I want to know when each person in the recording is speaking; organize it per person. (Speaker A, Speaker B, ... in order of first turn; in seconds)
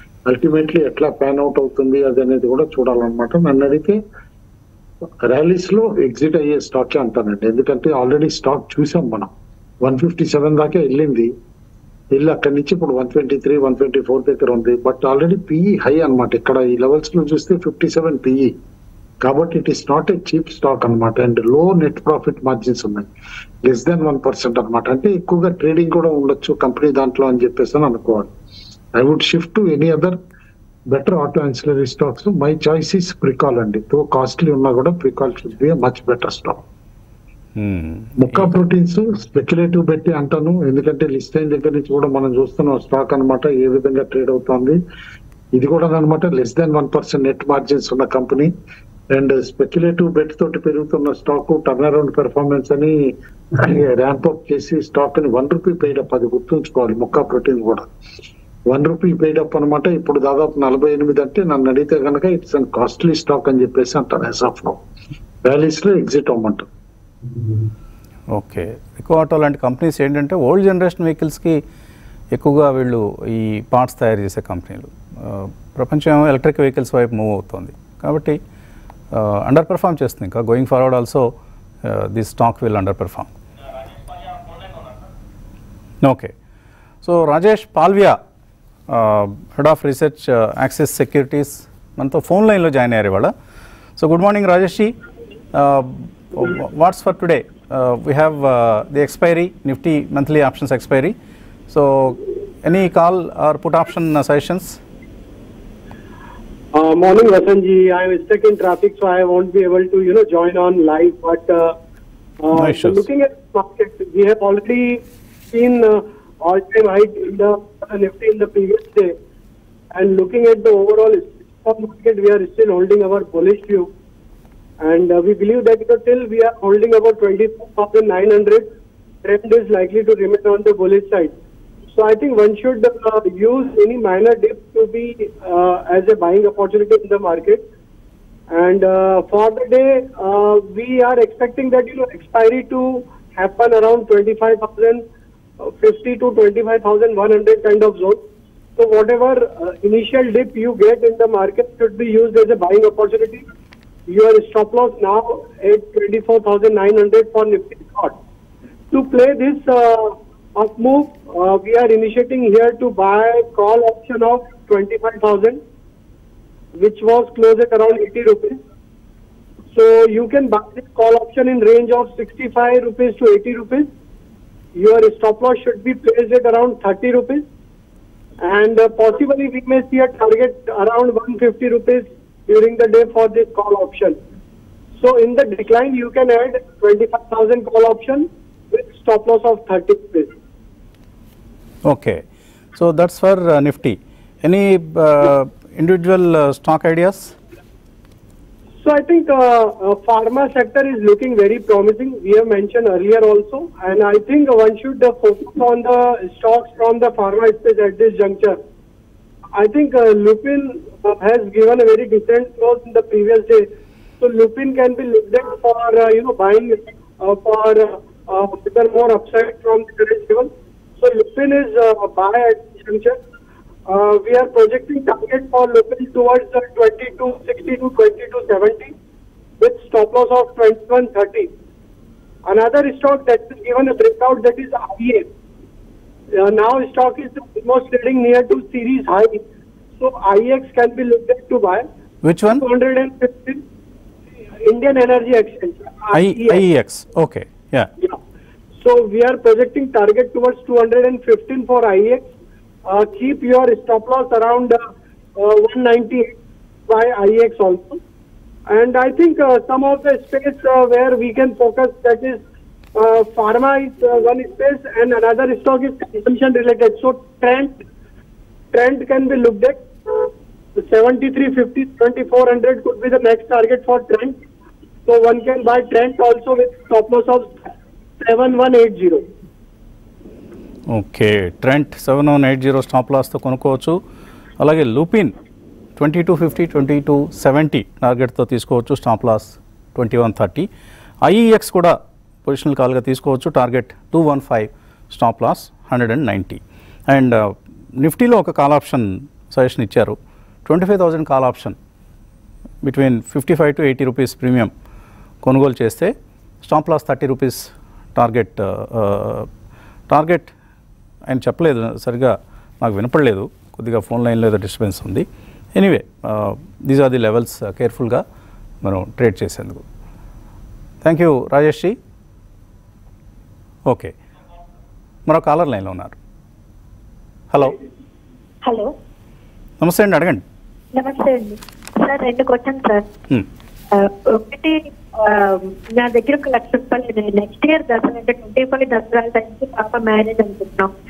Speaker A: 0.3-4.0, 5.2-9.3, 9.8-11.3, 12.1-18.5, 19.2-23.1, 23.6-28.3, 28.9-30.2, 30.9-36.6, 38.2-44.8, 45.5-48.5, 49.1-53.0, 53.5-57.9, 58.7-64.8, 65.4-66.7
Speaker B: 37.6-38.5, 68.3-71.6, 72.3-78.4, 79.1-81.3, 81.8-83.3, 86.0-86.3, 87.0-88.2, 88.9-93.3, 94.0-94.9, 95.5-101.1, 101.7-104.8, 112.5-113.0, 191.8-192.2, 192.8-197.3, 242.2-242.6, 246.1-247.9, 280.9-284.0, 284.6-285.3, 286.0-290.7, 291.2-301.8, 302.8-304.7, 305.4-309.5, 310.1-310.5, 311.3-318.2, 318.8-319.8, 321.0-321.9, 323.9-324.1, 325.3-326.2, 329.8-330.4
Speaker C: 106.7-111.8, 112.4-119.1, 119.9-123.9, 124.8-128.7, 129.2-131.3, 131.9-137.6, 138.5-145.0, 145.6-148.2, 148.8-153.4, 154.1-158.2, 158.9-165.6, 166.8-168.6, 169.7-173.9, 174.7-177.4, 178.4-184.2, 185.0-190.3, 198.8-208.6, 209.6-213.7, 214.2-223.2, 223.9-228.9, 229.6-231.5, 232.4-235.3, 236.3-239.4, 240.0-241.8, 242.6-243.6, 244.6-246.6, 248.8-252.3, 252.8-254.8, 255.3-256.3, 256.9-258.0, 258.7-262.4, 262.9-267.8, 268.7-270.3, 270.8-274.4, 275.1-277.6, 278.2-279.2
Speaker D: 330.9-333.0, 333.9-340.9